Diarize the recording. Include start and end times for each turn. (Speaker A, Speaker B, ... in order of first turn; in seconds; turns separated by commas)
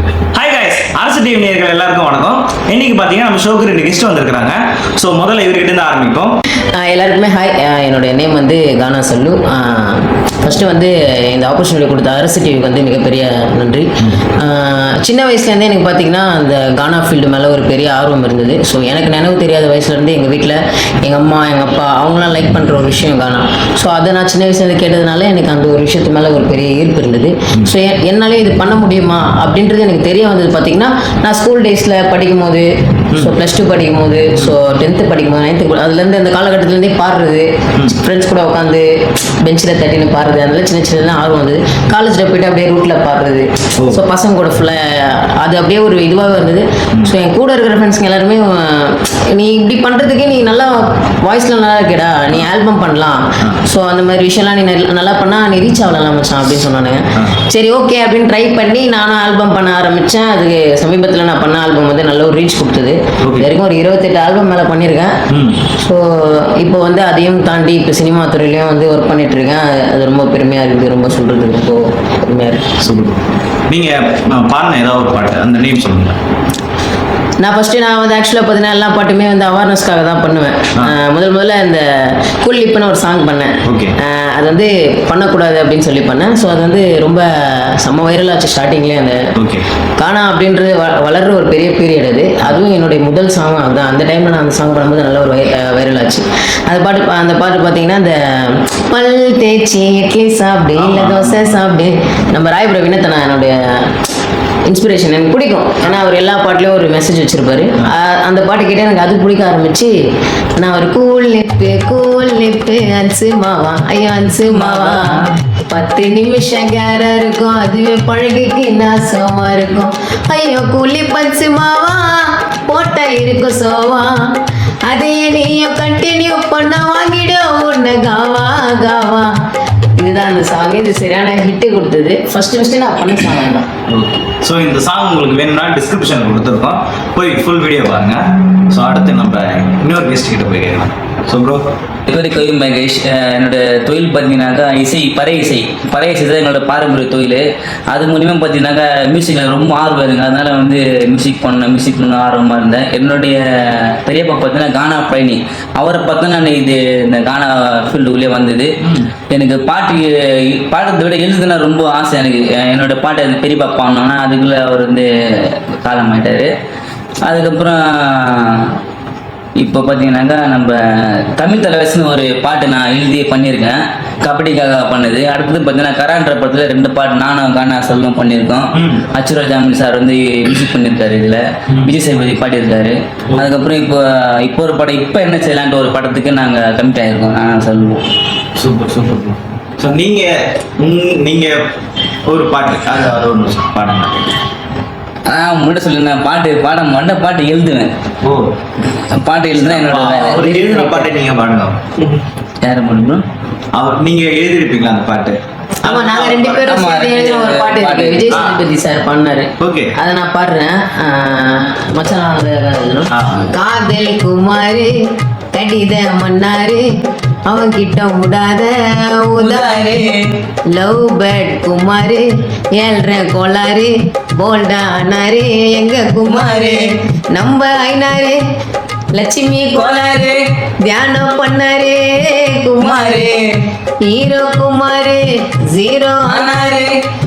Speaker A: 0.3-6.4, Speaker B: 6.7-38.9, Speaker B: 39.4-65.2, Speaker A: 43.8-44.0, Speaker A: 63.2-63.5, Speaker A: 65.3-65.7, Speaker B: 65.8-72.7, Speaker A: 72.8-76.2, Speaker B: 77.4-89.3, Speaker A: 83.6-84.0, Speaker A: 89.3-89.7, Speaker B: 90.0-104.0, Speaker A: 100.7-101.6, Speaker B: 104.7-109.9, Speaker B: 110.6-129.3, Speaker C: 114.4-115.3, Speaker B: 130.0-133.7, Speaker A: 133.9-141.7, Speaker C: 142.1-158.7, Speaker A: 158.8-159.1, Speaker C: 159.3-166.5, Speaker C: 167.2-168.7, Speaker C: 169.6-170.8, Speaker C: 171.3-188.0, Speaker A: 178.7-179.1, Speaker A: 188.6-191.7, Speaker A: 192.3-194.2, Speaker C: 195.3-197.9, Speaker A: 198.2-198.5, Speaker C: 199.1-201.1, Speaker A: 199.5-201.9, Speaker C: 202.6-203.2, Speaker A: 203.7-206.7, Speaker B: 205.8-214.9, Speaker C: 206.6-208.4, Speaker A: 208.3-208.6, Speaker A: 209.6-209.9, Speaker A: 213.1-213.5, Speaker B: 215.5-216.9, Speaker B: 217.5-220.1, Speaker C: 219.4-220.4, Speaker B: 220.7-228.4, Speaker C: 226.3-226.9, Speaker B: 229.1-233.4, Speaker C: 229.7-230.4, Speaker C: 232.8-233.6, Speaker B: 234.0-236.9, Speaker C: 236.2-236.9